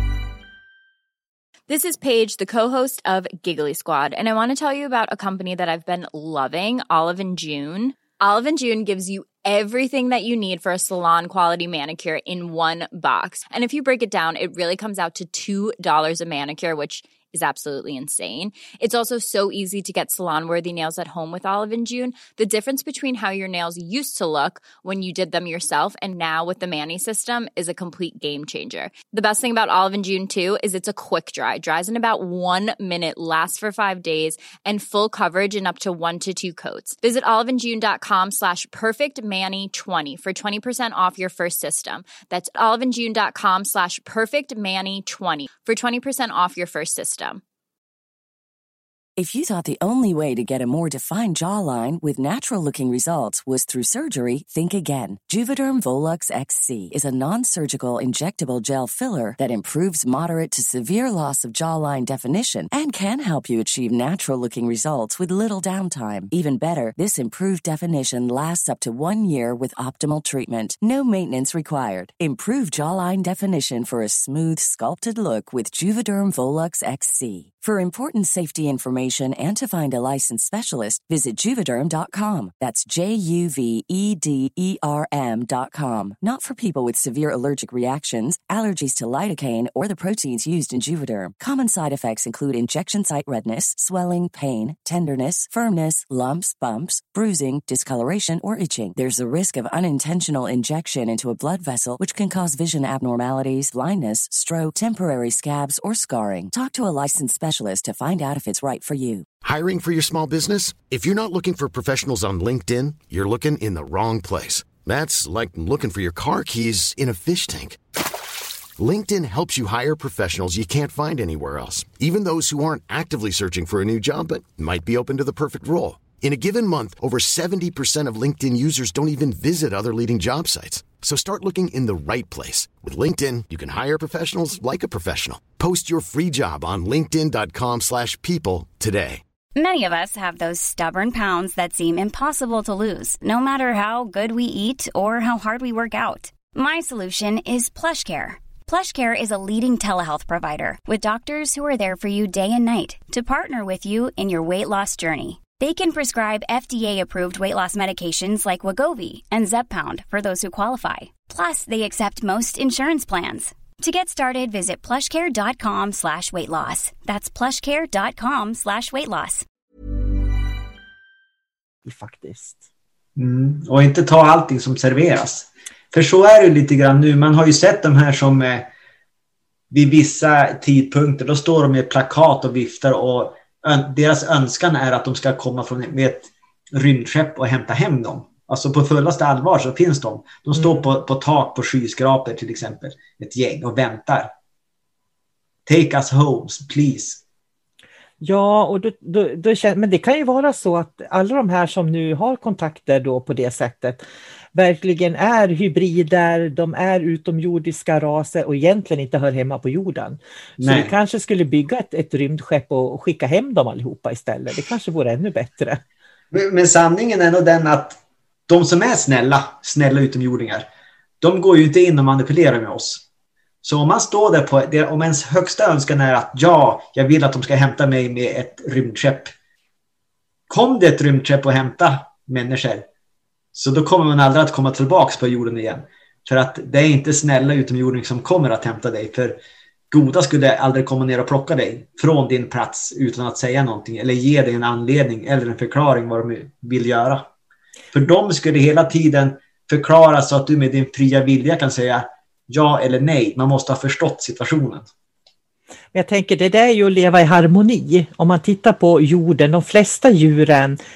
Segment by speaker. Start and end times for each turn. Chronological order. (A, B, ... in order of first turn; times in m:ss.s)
0:01.7-0:47.4 A
0:49.2-1:49.3 B
1:49.4-1:57.8 C
1:58.8-2:19.2 C
2:19.6-2:49.5 D
2:51.8-2:52.7 E
2:53.2-2:58.7 F
2:59.7-3:14.3 F
3:10.6-3:10.8 E
3:15.7-3:17.2 F
3:18.2-3:35.8 E
3:30.6-3:30.9 F
3:36.3-3:40.7 F
3:41.2-3:43.1 F
3:43.6-3:49.3 F
3:50.5-3:52.9 F
3:53.5-3:59.4 F
3:59.9-4:07.3 F
4:07.9-4:14.9 F
4:15.9-4:20.8 E